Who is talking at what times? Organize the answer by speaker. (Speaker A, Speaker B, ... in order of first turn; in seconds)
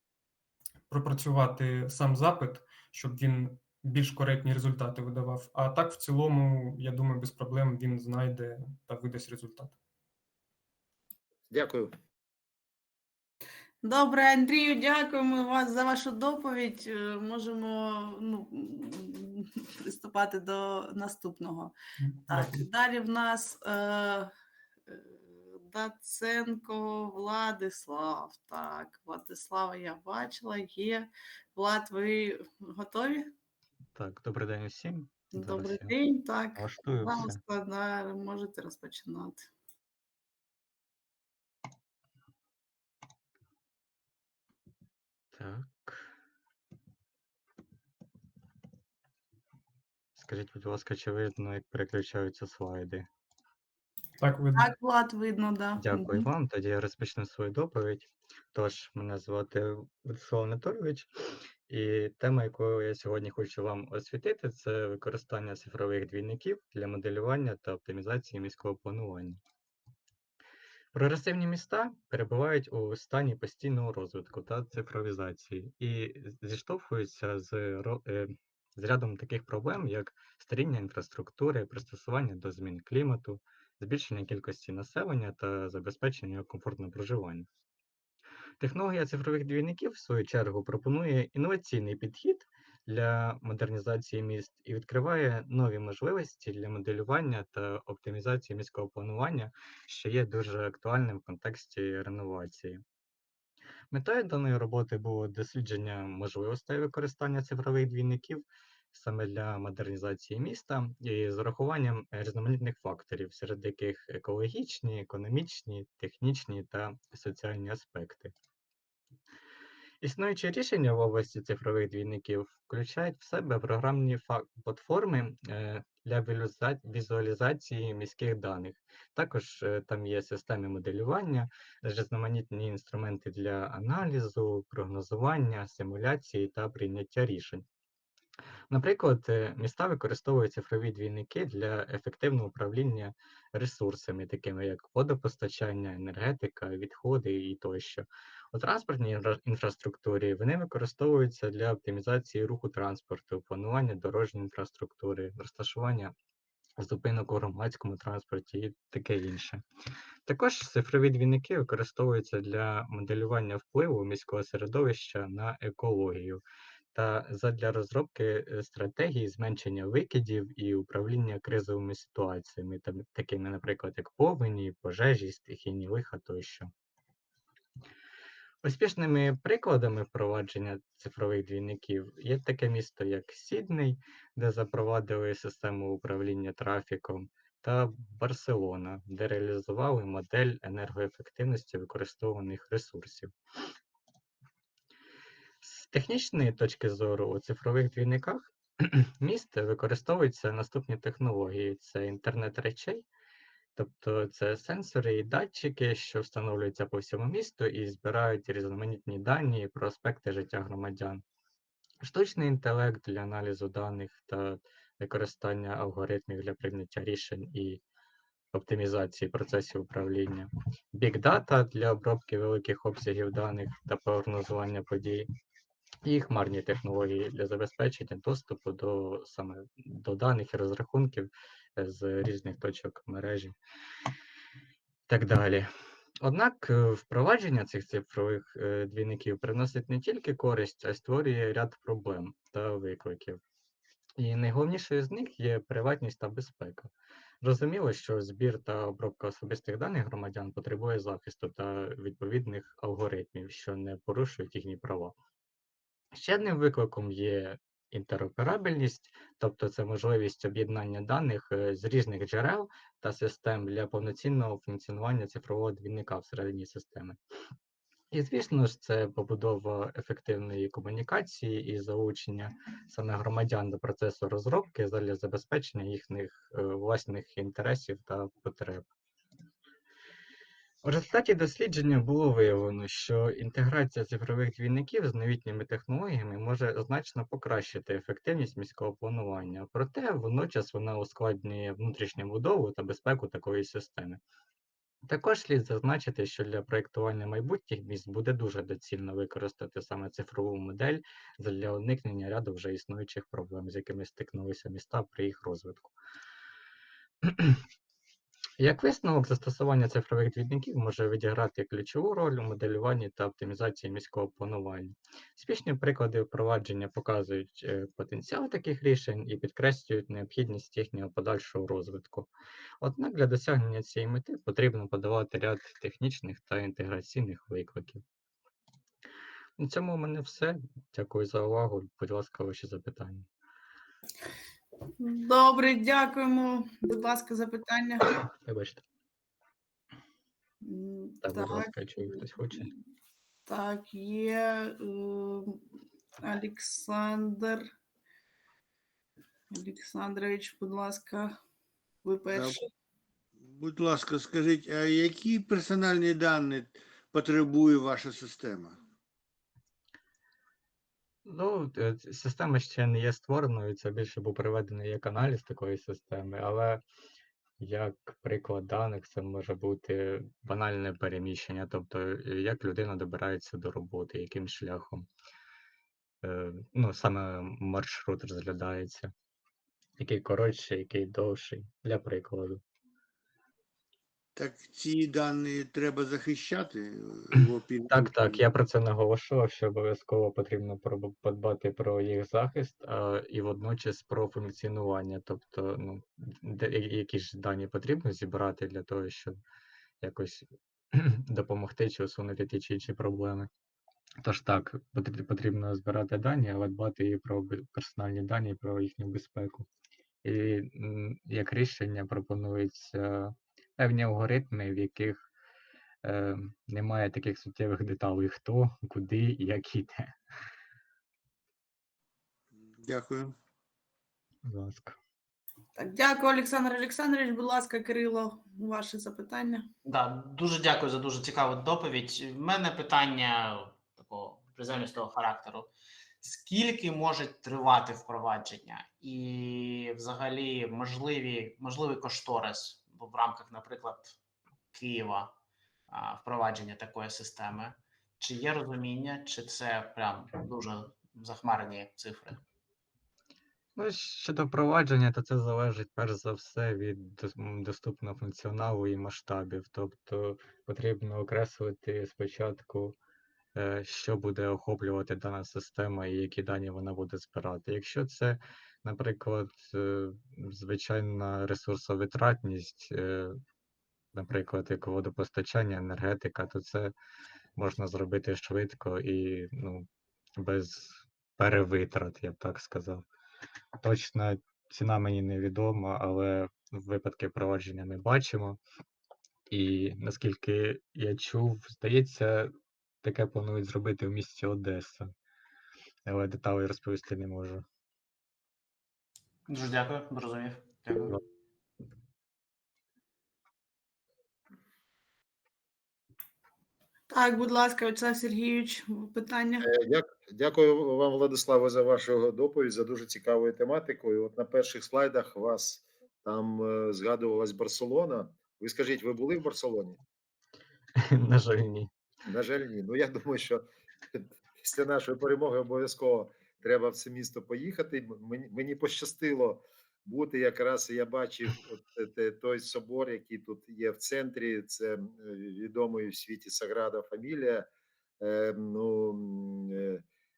Speaker A: 0.9-9.8, 22.0-22.7, 54.2-54.7
Speaker B: 11.5-11.9, 509.6-520.0, 522.2-537.7, 538.2-540.0
Speaker C: 13.8-21.7, 22.3-24.3, 24.9-33.3, 35.3-39.5, 54.6-56.3, 335.0-338.2, 340.6-342.2, 343.5-345.6, 346.2-347.7, 349.5-351.4, 352.1-352.7, 425.8-429.7, 507.1-509.7
Speaker D: 34.0-36.0, 36.6-37.4, 45.3-46.1, 50.2-53.1, 55.8-61.1, 61.7-69.4, 70.9-87.5, 88.6-102.8, 103.9-118.3, 120.0-137.7, 138.7-156.1, 156.8-159.7, 160.3-166.4, 166.9-176.7, 178.6-193.3, 195.6-203.1, 203.8-211.2, 212.0-217.8, 218.5-225.3, 226.1-233.6, 235.1-235.7, 236.2-243.4, 244.2-255.2, 256.1-267.2, 268.1-278.9, 280.8-294.2, 295.1-305.9, 307.2-307.6, 308.6-328.0, 329.6-333.3, 338.2-338.8, 341.2-342.7, 361.2-366.8, 367.6-375.1, 376.2-379.1, 380.0-382.6, 387.9-399.4, 400.0-403.5, 404.2-409.7, 410.2-415.3, 416.0-420.1, 424.4-425.0, 453.8-463.0, 463.6-473.4, 474.1-476.9, 477.6-479.9, 480.4-483.0, 483.8-488.6, 489.5-495.1, 496.1-497.6, 521.0-521.9
Speaker E: 352.3-352.6, 353.4-358.8, 384.4-388.4, 422.5-423.4
Speaker F: 429.9-435.7, 436.2-444.2, 444.7-445.3, 445.9-452.4, 499.5-501.2